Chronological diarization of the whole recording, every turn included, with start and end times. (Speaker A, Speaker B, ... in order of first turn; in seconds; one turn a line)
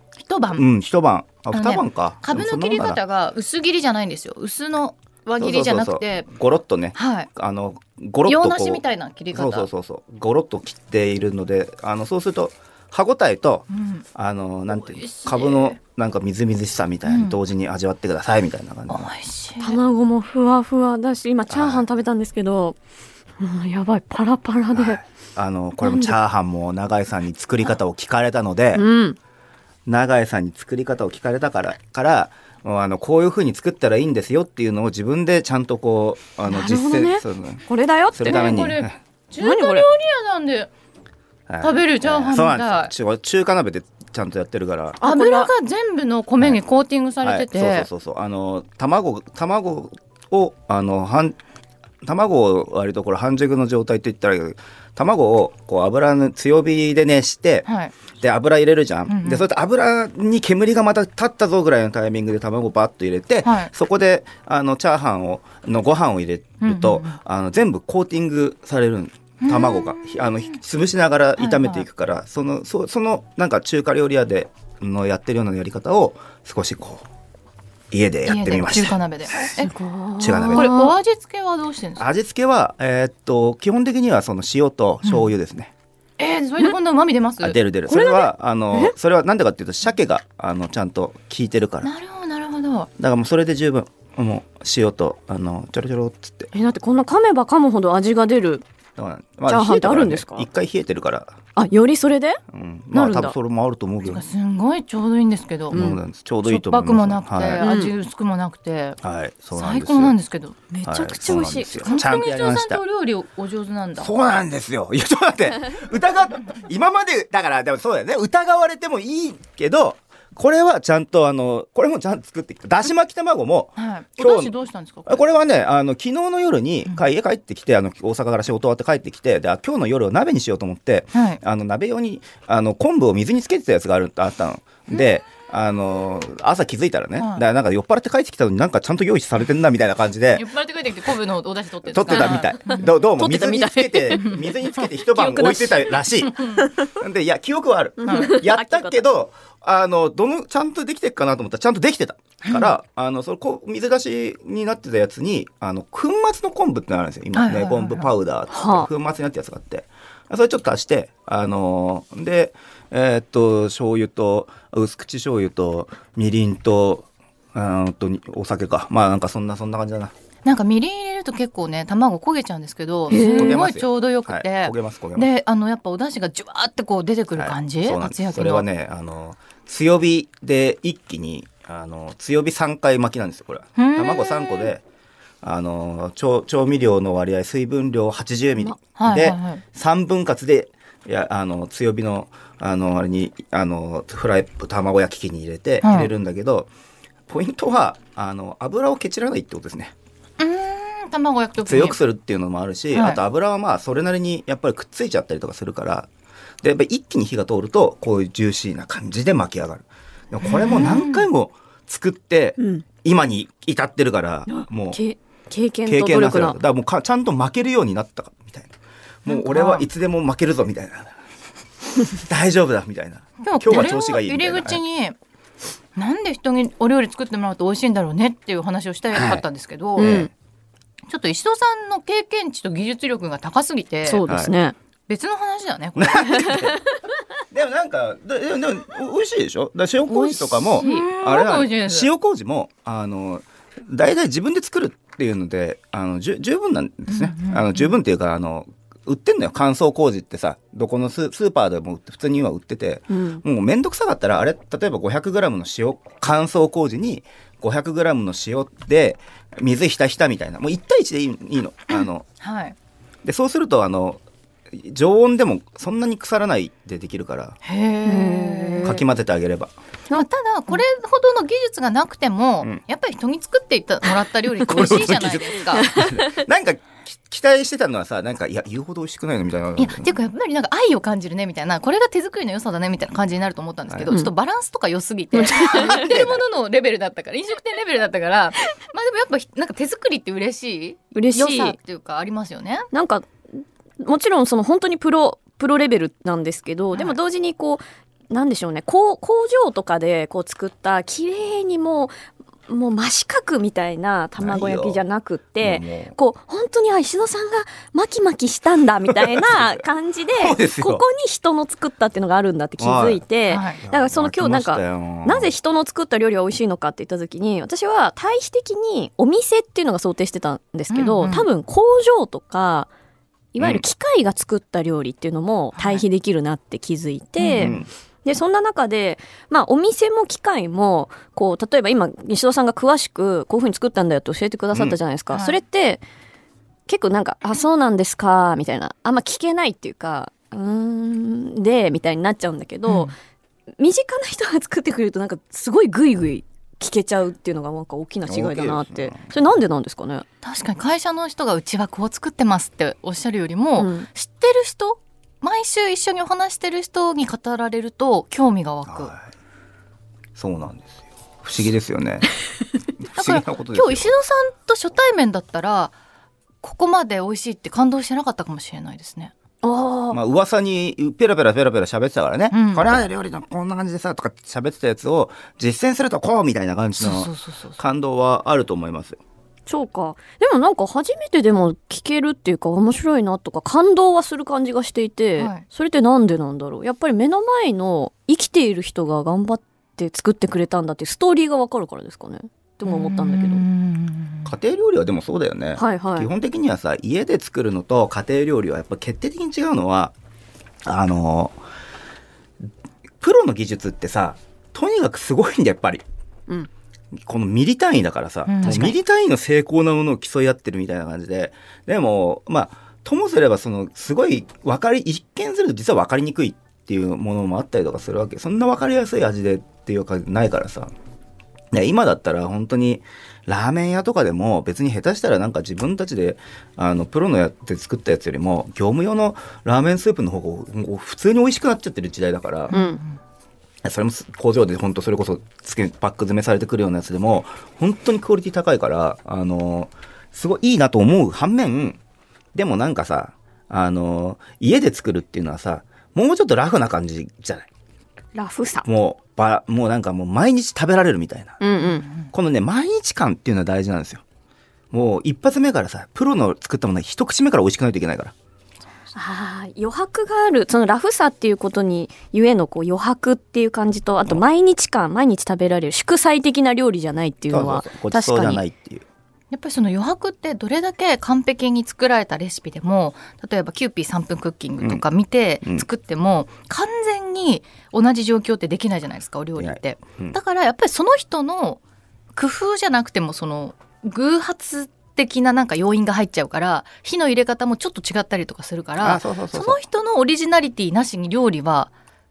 Speaker A: 0.2-0.6
Speaker B: 0.6-3.0
Speaker A: 1.5-6.3
Speaker B: 5.4-19.1
Speaker A: 6.9-7.3
Speaker A: 8.2-9.7
Speaker A: 13.7-14.1
Speaker A: 14.7-15.8
Speaker A: 17.1-17.4
Speaker A: 18.9-19.8
Speaker C: 19.6-22.8
Speaker B: 21.5-21.9
Speaker C: 23.4-25.0
Speaker B: 24.7-28.9
Speaker C: 25.8-26.1
Speaker C: 28.7-29.2
Speaker B: 29.9-39.0
Speaker C: 36.4-38.5
Speaker A: 38.2-40.7
Speaker C: 39.4-39.9
Speaker B: 41.5-45.0
Speaker A: 41.6-42.9
Speaker C: 45.0-45.5
Speaker A: 45.0-47.9
Speaker B: 47.2-51.4
Speaker B: 52.0-57.7
Speaker A: 57.6-58.0
Speaker B: 58.2-77.0
Speaker A: 59.1-59.5
Speaker A: 63.4-63.7
Speaker A: 66.6-67.2
Speaker A: 69.4-70.3
Speaker A: 71.4-71.9
Speaker B: 77.9-79.5
Speaker A: 78.2-79.7
Speaker C: 79.4-81.0
Speaker B: 80.2-80.8
Speaker A: 80.5-82.1
Speaker B: 82.0-85.7
Speaker A: 86.2-87.6
Speaker B: 87.4-91.9
Speaker C: 87.9-88.9
Speaker A: 91.8-92.9
Speaker B: 93.0-96.5
Speaker C: 96.5-98.6
Speaker B: 99.0-101.4
Speaker C: 99.5-100.5
Speaker C: 101.5-102.4
Speaker B: 102.5-104.3
Speaker C: 102.9-103.4
Speaker A: 104.0-105.8
Speaker B: 105.7-107.6
Speaker C: 105.7-106.0
Speaker A: 106.4-109.0
Speaker C: 107.6-107.9
Speaker B: 109.0-110.2
Speaker A: 109.5-110.6
Speaker C: 110.7-112.0
Speaker B: 110.8-112.8
Speaker A: 111.8-114.1
Speaker B: 114.0-124.5
Speaker A: 123.8-125.3
Speaker B: 125.0-140.4
Speaker A: 131.1-131.4
Speaker A: 137.2-137.4
Speaker A: 140.3-142.9
Speaker B: 141.8-170.1
Speaker C: 142.1-146.9
Speaker A: 146.3-146.6
Speaker C: 148.0-149.0
Speaker A: 148.1-148.4
Speaker A: 157.3-158.1
Speaker C: 158.5-158.9
Speaker A: 170.4-178.7
Speaker C: 173.1-173.6
Speaker B: 173.1-175.3
Speaker B: 177.4-184.8
Speaker A: 183.8-184.7
Speaker B: 185.4-196.7
Speaker A: 189.0-189.6
Speaker A: 195.8-196.1
Speaker B: 197.3-199.9
Speaker A: 200.4-202.0
Speaker B: 201.7-206.1
Speaker A: 202.9-203.2
Speaker B: 206.6-215.0
Speaker A: 210.4-211.3
Speaker C: 214.5-216.6
Speaker B: 215.9-218.7
Speaker B: 219.2-221.2
Speaker A: 219.3-219.9
Speaker B: 222.1-224.8
Speaker A: 223.4-225.2
Speaker A: 225.9-230.2
Speaker B: 229.1-229.4
Speaker C: 230.0-230.3
Speaker B: 230.0-230.3
Speaker A: 231.1-234.2
Speaker C: 234.0-234.8
Speaker B: 234.2-234.5
Speaker A: 235.1-236.7
Speaker B: 236.0-236.8
Speaker B: 237.5-262.3
Speaker C: 240.1-241.1
Speaker A: 240.8-242.1
Speaker A: 247.1-247.9
Speaker C: 253.1-253.4
Speaker A: 261.9-262.8
Speaker B: 263.2-267.6
Speaker A: 267.6-269.0
Speaker C: 268.0-269.0
Speaker B: 268.8-269.7
Speaker A: 270.1-275.9
Speaker B: 274.7-280.2
Speaker C: 275.8-276.4
Speaker A: 279.8-292.9
Speaker C: 285.3-286.1
Speaker B: 285.7-286.4
Speaker C: 291.1-291.8
Speaker C: 292.9-293.3
Speaker C: 294.0-302.1
Speaker C: 302.7-322.9
Speaker B: 304.4-305.0
Speaker B: 305.6-306.1
Speaker B: 309.4-309.7
Speaker B: 310.3-311.0
Speaker B: 312.8-313.2
Speaker A: 313.5-313.8
Speaker B: 313.8-315.5
Speaker A: 320.9-321.5
Speaker C: 323.5-336.0
Speaker A: 325.8-326.0
Speaker A: 327.4-327.8
Speaker B: 327.6-327.9
Speaker A: 335.3-335.6
Speaker C: 336.9-343.1
Speaker A: 342.9-343.1
Speaker C: 343.8-350.2
Speaker B: 348.3-349.2
Speaker A: 350.4-359.1
Speaker C: 353.8-354.1
Speaker B: 358.9-359.2
Speaker B: 360.4-362.3
Speaker B: 363.1-364.1
Speaker A: 363.1-365.9
Speaker A: 366.6-369.3
Speaker C: 369.6-370.2
Speaker B: 370.1-379.2
Speaker A: 372.5-373.1
Speaker A: 377.0-377.8
Speaker C: 379.7-393.6
Speaker A: 385.4-385.6
Speaker A: 392.9-394.5
Speaker B: 394.5-400.1
Speaker C: 395.8-396.3
Speaker B: 400.9-401.6
Speaker B: 403.2-406.0
Speaker B: 407.2-420.9
Speaker A: 408.5-408.9
Speaker C: 408.6-408.9
Speaker B: 421.7-432.7
Speaker A: 432.7-433.2
Speaker C: 432.7-433.0
Speaker B: 433.8-442.0
Speaker B: 442.5-447.7
Speaker C: 448.4-448.9
Speaker B: 448.9-451.6
Speaker C: 451.6-452.1
Speaker A: 451.8-452.3
Speaker B: 452.3-454.2
Speaker B: 454.9-458.3
Speaker C: 459.1-468.6
Speaker B: 467.5-469.0
Speaker A: 469.5-481.8
Speaker B: 479.6-480.4
Speaker A: 482.3-491.9
Speaker B: 489.0-489.8